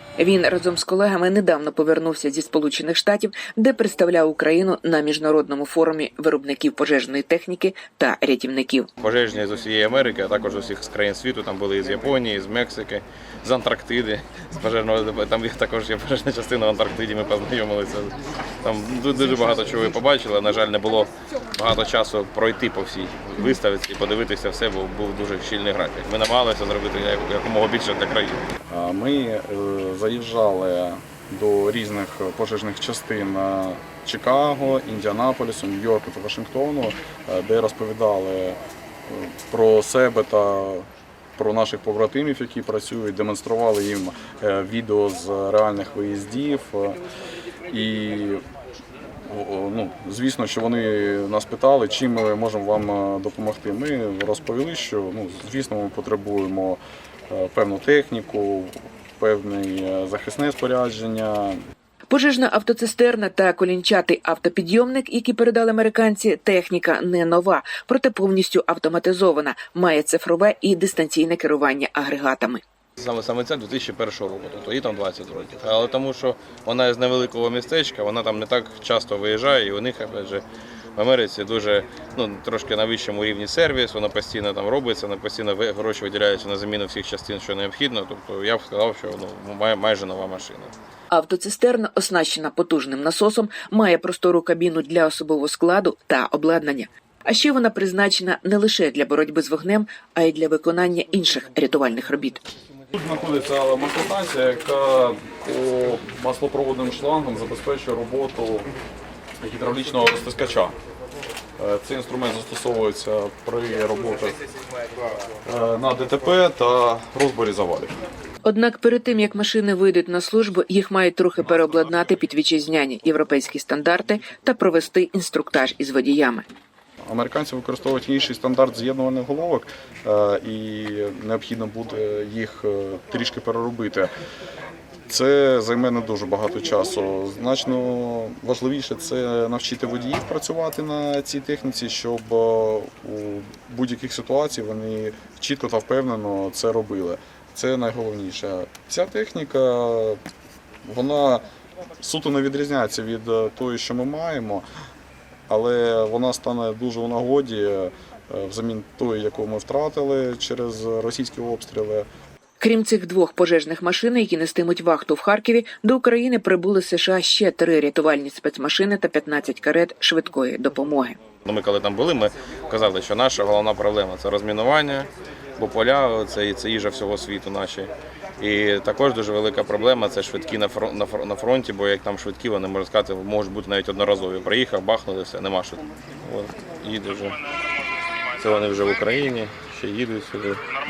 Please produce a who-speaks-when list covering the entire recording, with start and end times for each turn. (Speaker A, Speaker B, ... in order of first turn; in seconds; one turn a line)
Speaker A: 0.2-8.9
Speaker B: 9.0-28.4
Speaker C: 28.7-47.0
Speaker C: 47.7-48.4
Speaker C: 49.3-61.6
Speaker A: 62.1-72.6
Speaker B: 73.0-80.5
Speaker B: 81.0-90.7
Speaker A: 91.1-102.4
Speaker C: 102.9-108.7
Speaker C: 109.4-110.8
Speaker C: 111.6-114.4
Speaker C: 115.5-117.9
Speaker A: 118.5-126.5
Speaker C: 127.1-134.1
Speaker C: 135.1-150.2
Speaker C: 150.8-151.4
Speaker C: 152.0-154.6
Speaker C: 155.5-162.1
Speaker A: 162.6-171.2
Speaker B: 171.4-187.4
Speaker B: 188.4-190.7